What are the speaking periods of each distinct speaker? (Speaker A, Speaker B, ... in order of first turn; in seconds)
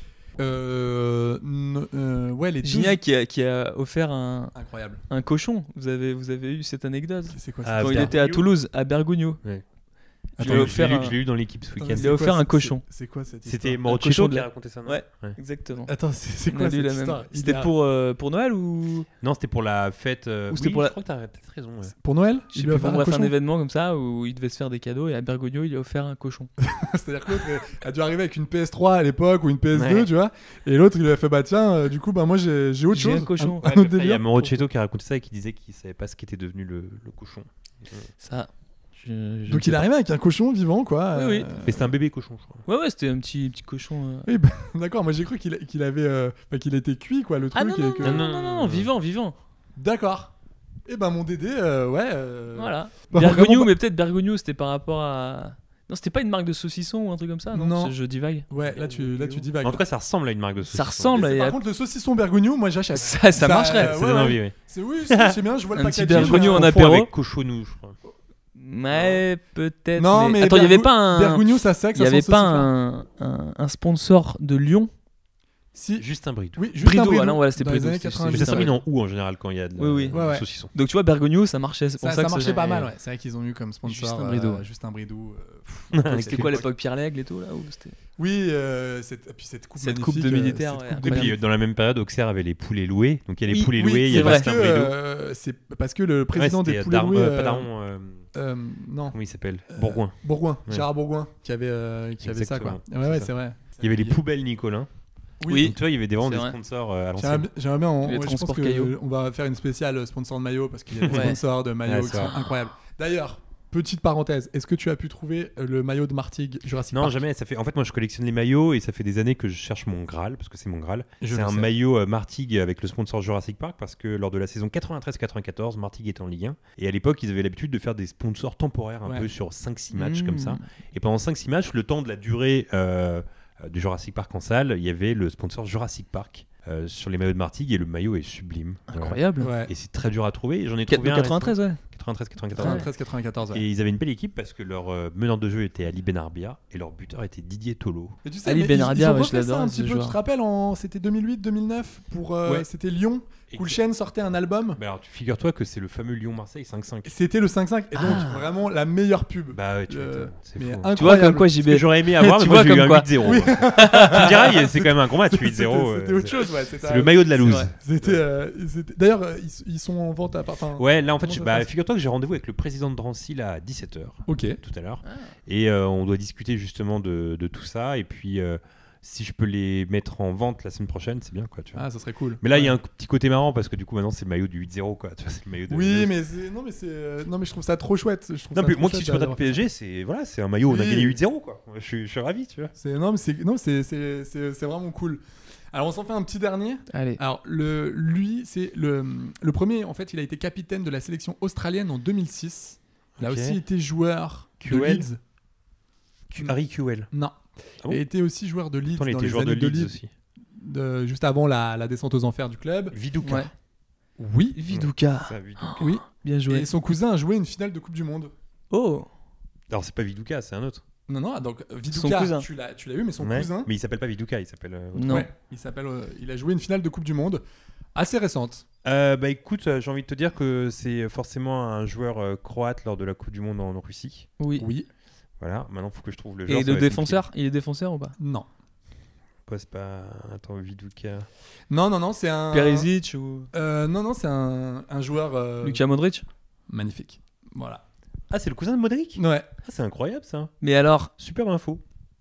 Speaker A: 0.4-3.0, 4.5-5.0, 7.3-8.4, 10.4-11.2, 11.8-13.8, 15.9-17.7, 22.0-23.3, 26.6-34.5, 39.5-41.9, 44.3-48.2, 49.8-50.3, 50.9-53.7, 57.5-57.9, 58.5-59.8, 61.1-66.8, 70.0-72.7, 75.7-78.7, 80.1-80.4, 82.0-86.7, 88.2-91.4, 93.8-97.7, 98.3-104.2, 105.4-105.7, 107.2-117.2, 121.2-121.7, 139.4-139.7, 142.6-143.6, 148.2-154.8, 157.0-161.5, 163.2-171.7, 174.3-174.6, 181.7-182.7, 185.7-189.6, 190.7-191.2, 192.8-195.2, 195.7-205.2, 207.1-209.9, 210.6-212.9, 214.2-214.6, 215.8-218.3, 221.1-223.7, 225.1-227.4, 227.9-228.6, 234.6-234.9, 238.2-238.4, 241.7-242.9, 243.5-245.8, 246.7-247.8, 249.2-249.5
Speaker B: 2.6-4.5, 5.1-9.4, 10.4-11.1, 12.0-12.8, 13.8-15.9, 16.5-19.1, 20.5-20.9, 22.5-26.5, 32.9-33.9, 38.2-39.9, 41.1-41.5, 42.6-44.3, 47.5-49.4, 52.5-59.4, 60.7-61.6, 63.0-64.0, 65.7-67.1, 68.5-74.9, 76.8-78.7, 79.8-82.8, 83.8-84.6, 86.1-87.9, 89.8-91.3, 93.5-94.4, 105.5-106.5, 108.0-108.9, 111.1-111.4, 129.9-130.6, 138.9-139.5, 140.9-141.8, 142.6-142.8, 148.4-150.2, 157.9-158.5, 160.9-164.3, 167.4-167.7, 175.0-175.3, 196.9-197.2, 213.2-213.5, 214.5-216.7, 218.7-219.1, 221.9-222.4, 224.9-225.3, 234.4-234.7, 236.5-238.1, 242.5-243.5, 245.6-246.2, 250.6-251.1
Speaker C: 7.6-8.4, 10.4-12.1, 13.4-15.4, 19.2-21.9, 29.7-30.1, 33.6-38.1, 41.6-42.6, 48.0-48.9, 59.6-61.2, 63.8-64.5, 65.1-65.4, 66.1-68.0, 76.0-76.6, 78.3-80.7, 85.9-86.6, 91.0-94.9, 96.3-98.2, 99.1-100.2, 102.2-104.9, 105.5-107.5, 111.0-111.3, 111.8-112.3, 116.9-142.9, 143.5-148.2, 153.5-153.8, 154.8-157.1, 159.5-168.2, 170.8-181.8, 182.4-186.1, 188.5-192.7, 203.2-203.6, 204.6-205.1, 206.3-207.1, 208.9-210.1, 212.9-213.5, 214.7-215.9, 219.7-220.8, 223.2-225.2, 228.8-234.3, 235.4-237.2, 239.5-241.3, 248.3-250.5, 251.2-251.8